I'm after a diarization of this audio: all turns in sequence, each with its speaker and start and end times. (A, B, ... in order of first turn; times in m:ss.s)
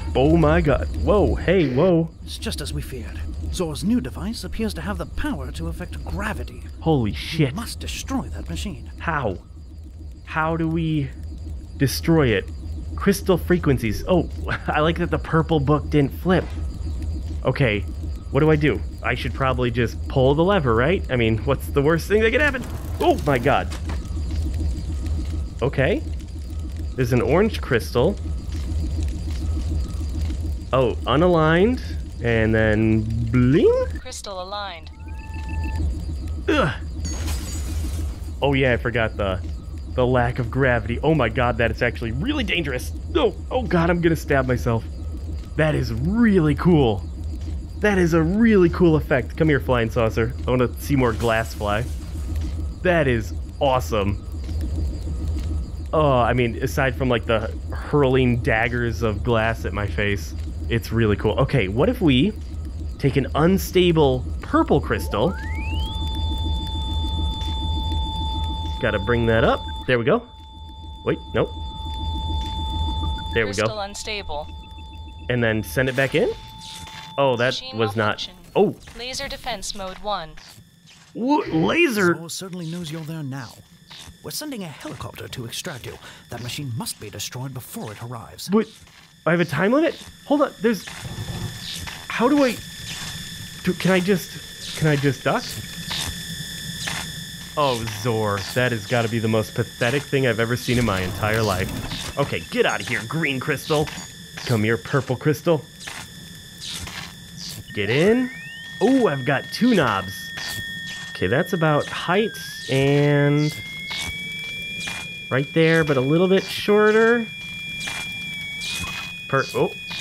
0:00.1-0:02.1 A
0:02.2-0:06.7 B
0:06.8-0:07.7 A
0:07.3-0:09.0 B
0:09.0-0:09.4 A
0:10.2-0:11.1 A
0:11.8-0:16.6 A
0:17.4-0:23.7 A
0:25.6-0:26.1 A
0:27.0-0:28.2 A
0:30.7-0:33.9 A
0:34.0-0:34.9 C
0:36.5-0:36.8 A
0:38.4-0:39.4 A
0:39.9-0:44.9 A
0:45.6-0:47.1 A
0:47.8-0:51.9 A
0:52.8-0:54.2 A
0:55.9-1:02.4 A
1:03.0-1:05.4 A
1:08.8-1:10.3 A
1:11.0-1:11.6 A
1:13.3-1:13.8 A
1:13.4-1:14.5 C
1:15.3-1:16.4 A
1:17.2-1:18.8 A
1:17.4-1:20.4 C
1:21.1-1:22.2 A
1:21.9-1:23.6 B
1:24.2-1:28.5 B
1:28.5-1:28.7 A
1:29.2-1:30.9 A
1:32.1-1:32.6 A
1:33.6-1:35.6 A
1:37.6-1:45.7 A
1:47.7-1:50.3 A
1:51.1-1:53.6 A
1:55.3-1:57.3 A
1:59.3-1:59.8 A